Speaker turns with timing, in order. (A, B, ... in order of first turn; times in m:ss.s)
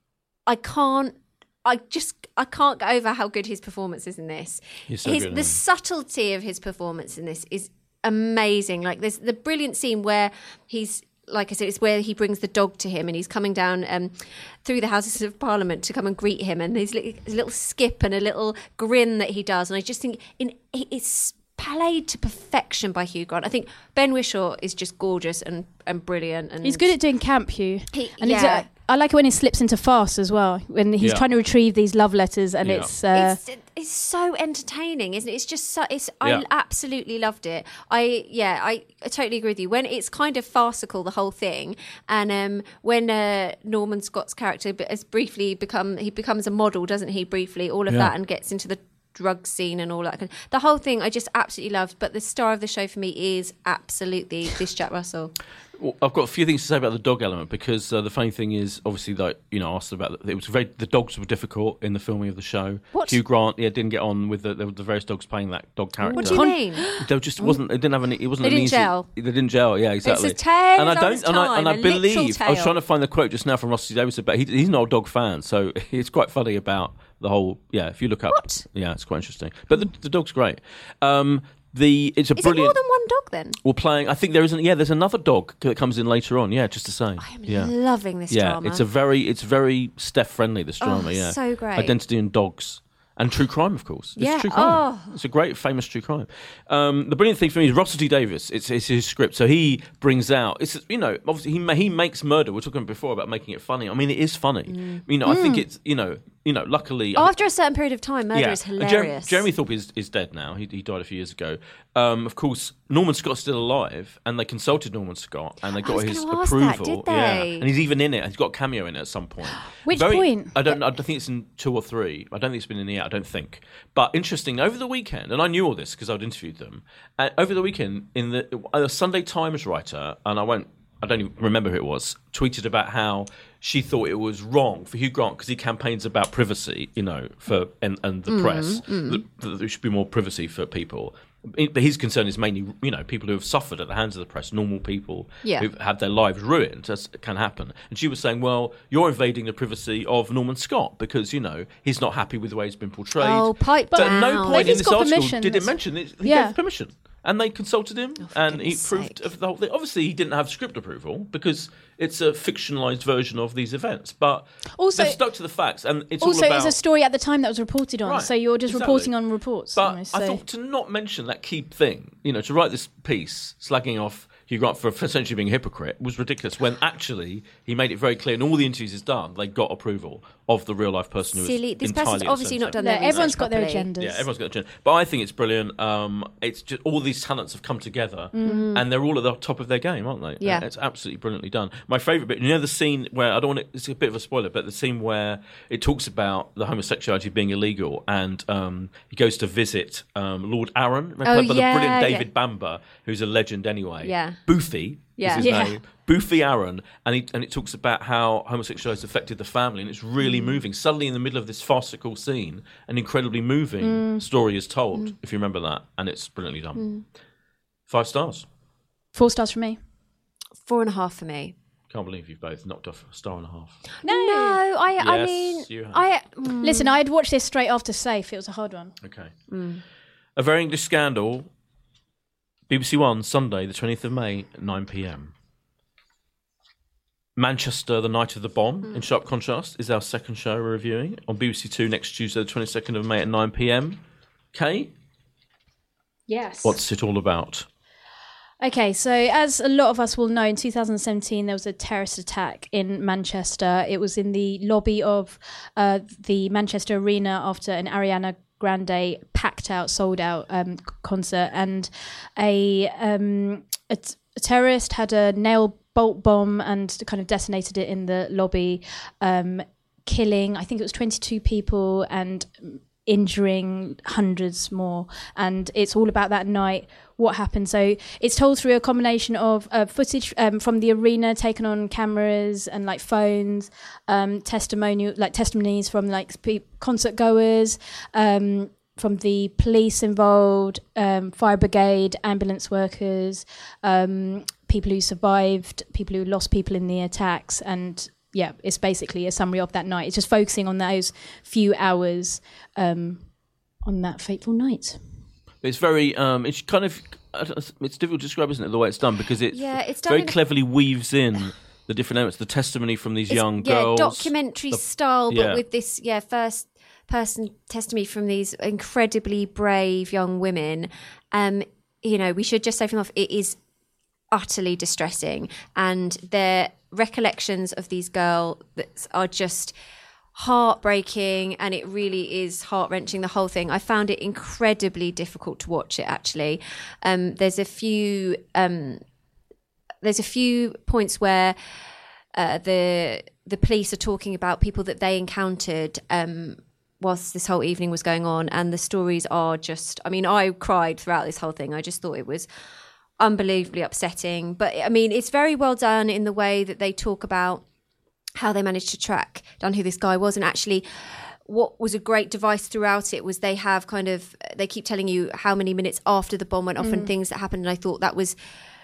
0:00.4-0:26.9 A
0:04.9-0:05.6 B
0:26.6-0:33.4 C
0:27.9-0:28.7 A
0:31.0-0:31.2 B
0:32.6-0:32.9 B
0:33.1-0:55.3 A
0:55.8-1:22.8 B
1:02.9-1:03.2 A
1:06.0-1:07.0 A
1:06.1-1:07.6 C
1:08.4-1:09.1 A
1:10.0-1:12.8 A
1:18.3-1:18.6 A
1:22.4-1:23.6 A
1:23.6-1:27.7 B
1:27.2-1:28.8 A
1:28.3-1:47.3 B
1:30.8-1:31.9 A
1:34.2-1:35.1 A
1:44.7-1:45.0 A
1:45.2-1:45.6 C
1:47.2-1:49.5 A
1:48.3-2:46.8 B
1:55.8-1:57.7 A
1:59.8-2:00.7 C
2:18.3-2:19.2 A
2:33.2-2:34.8 A
2:33.9-2:36.6 C
2:38.2-2:39.2 A
2:44.8-2:45.2 C
2:46.2-2:50.4 C
2:48.0-2:49.1 B
2:49.8-3:03.3 B
3:01.3-3:03.9 A
3:02.8-3:04.2 C
3:04.0-3:36.8 B
3:08.3-3:08.7 C
3:08.4-3:08.8 A
3:10.4-3:10.6 A
3:21.2-3:22.3 A
3:24.0-3:24.4 A
3:25.2-3:25.6 A
3:25.4-3:25.8 C
3:30.2-3:30.6 A
3:33.8-3:34.2 C
3:36.8-3:37.0 A
3:37.9-3:38.4 B
3:39.1-3:39.8 C
3:40.6-3:41.5 A
3:41.9-3:43.8 B
3:44.0-3:47.0 A
3:44.0-3:44.6 C
3:45.0-3:46.0 B
3:46.6-3:49.0 C
3:49.0-3:49.3 B
3:49.5-3:49.8 A
3:50.4-3:51.5 B
3:52.7-3:55.3 B
3:57.4-4:04.0 B
4:04.5-4:04.9 B
4:06.3-4:06.8 A
4:06.6-4:07.7 B
4:08.6-5:03.2 C
5:03.8-5:05.0 C
5:05.6-5:15.6 B
5:09.5-5:10.4 A
5:13.3-5:23.6 A
5:24.3-5:29.7 A
5:30.3-5:39.0 A
5:40.0-5:41.5 A
5:42.3-5:52.5 A
5:53.2-5:57.6 A
5:58.4-6:08.3 A
6:06.8-6:07.1 C